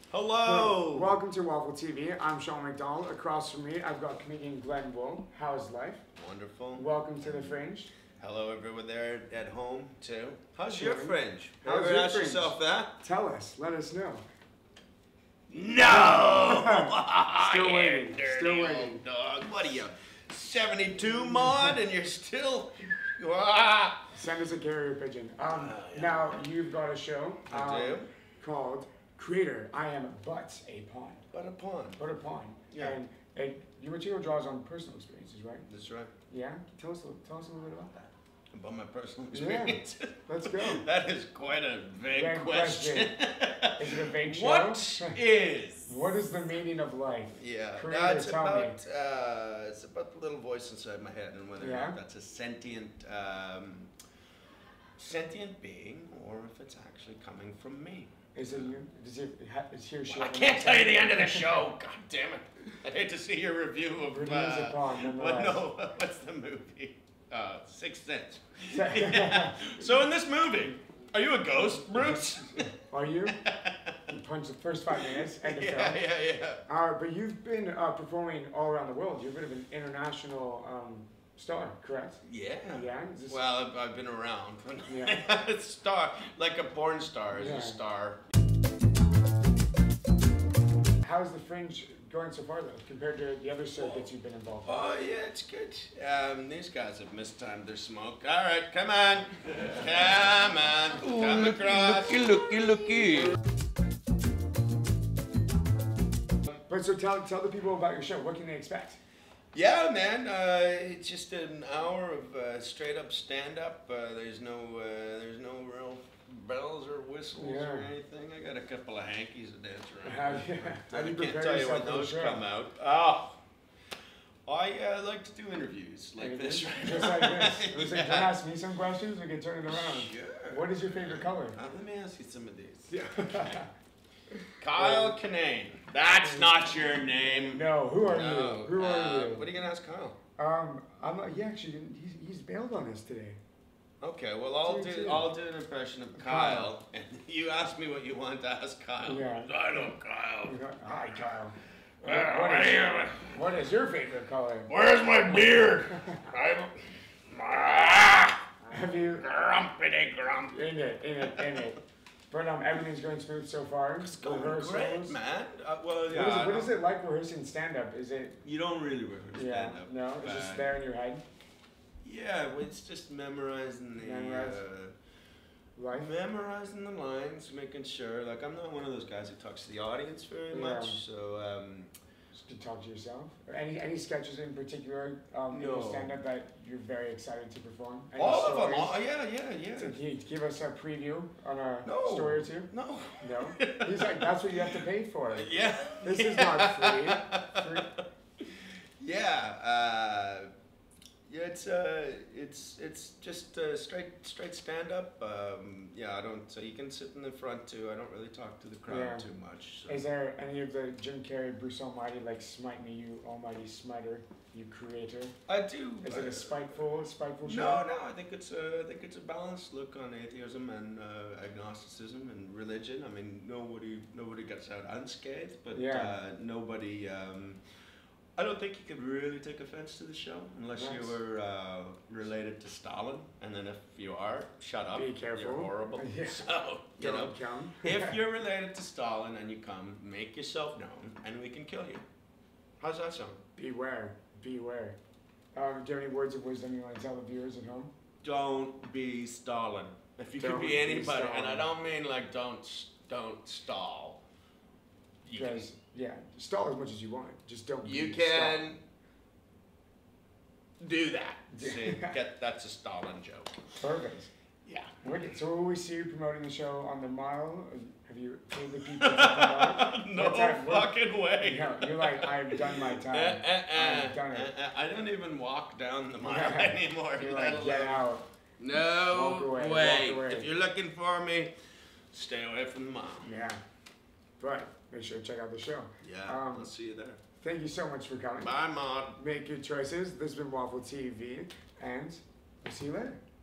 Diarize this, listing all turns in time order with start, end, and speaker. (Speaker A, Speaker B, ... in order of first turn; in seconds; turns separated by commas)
Speaker A: 0.1-1.2, Speaker B: 0.4-6.0, Speaker A: 6.1-7.6, Speaker B: 6.8-7.9, Speaker A: 8.2-13.0, Speaker B: 10.7-14.2, Speaker A: 15.5-24.1, Speaker B: 15.8-19.0, Speaker B: 21.0-21.8, Speaker B: 24.1-31.3, Speaker A: 25.5-26.4, Speaker A: 27.5-28.1, Speaker A: 31.3-32.0, Speaker B: 32.0-35.7, Speaker A: 32.7-33.0, Speaker A: 35.7-36.1, Speaker B: 36.3-38.0, Speaker A: 38.0-46.2, Speaker B: 39.3-40.9, Speaker B: 42.1-43.2, Speaker B: 43.8-45.2, Speaker B: 45.9-48.8, Speaker A: 47.3-53.9, Speaker B: 51.6-52.0, Speaker A: 55.0-58.7, Speaker B: 58.4-61.5, Speaker A: 60.1-72.7, Speaker B: 64.1-65.7, Speaker B: 68.7-69.8, Speaker B: 72.5-73.4, Speaker A: 73.3-74.2, Speaker B: 74.1-76.0, Speaker A: 74.9-76.6, Speaker B: 76.7-83.4, Speaker A: 82.2-88.2, Speaker B: 84.9-85.2, Speaker B: 87.3-87.8, Speaker B: 91.0-94.8, Speaker A: 93.8-94.0, Speaker A: 94.7-102.3, Speaker C: 101.0-103.3, Speaker B: 106.5-109.0, Speaker A: 109.5-123.4, Speaker B: 117.4-117.9, Speaker B: 120.0-122.5, Speaker A: 124.5-128.3, Speaker B: 126.2-131.6, Speaker A: 129.7-133.7, Speaker B: 132.9-133.7, Speaker B: 134.4-135.2, Speaker A: 134.6-140.2, Speaker B: 136.2-136.5, Speaker B: 137.2-139.5, Speaker B: 140.4-143.4, Speaker A: 144.0-150.6, Speaker B: 144.7-145.3, Speaker B: 146.2-146.7, Speaker B: 149.0-149.7, Speaker B: 150.4-154.7, Speaker A: 152.0-153.4, Speaker A: 154.7-161.7, Speaker B: 155.9-156.3, Speaker B: 158.7-159.3, Speaker B: 160.5-165.2, Speaker A: 164.0-166.8, Speaker B: 166.1-168.4, Speaker A: 168.4-170.7, Speaker B: 169.3-171.2, Speaker A: 172.0-174.9, Speaker B: 174.0-174.6, Speaker B: 175.8-176.1, Speaker A: 175.9-181.9, Speaker B: 180.5-181.0, Speaker B: 182.3-189.0, Speaker A: 185.5-186.1, Speaker A: 188.2-190.0, Speaker B: 189.8-198.0, Speaker A: 191.8-200.5, Speaker A: 201.3-210.0, Speaker B: 208.9-209.3, Speaker B: 209.9-215.4, Speaker A: 215.5-216.7, Speaker B: 216.0-217.9, Speaker A: 217.4-227.6, Speaker B: 225.7-226.2, Speaker A: 228.4-242.1, Speaker B: 230.8-231.1, Speaker B: 234.9-238.2, Speaker A: 242.8-243.4, Speaker B: 243.6-245.0, Speaker B: 245.6-247.9, Speaker A: 248.2-254.2, Speaker B: 250.4-251.7, Speaker A: 255.2-255.7, Speaker B: 255.3-258.7, Speaker A: 257.8-258.8, Speaker A: 260.8-263.7, Speaker B: 261.5-262.2, Speaker B: 263.8-264.3, Speaker A: 264.7-264.9, Speaker B: 265.0-274.5, Speaker A: 268.9-278.1, Speaker B: 276.2-280.5, Speaker A: 278.6-281.5, Speaker A: 282.1-283.3, Speaker B: 283.2-283.6, Speaker B: 284.4-286.7, Speaker A: 286.0-287.2, Speaker B: 287.4-288.6, Speaker A: 288.4-289.2, Speaker B: 289.1-293.2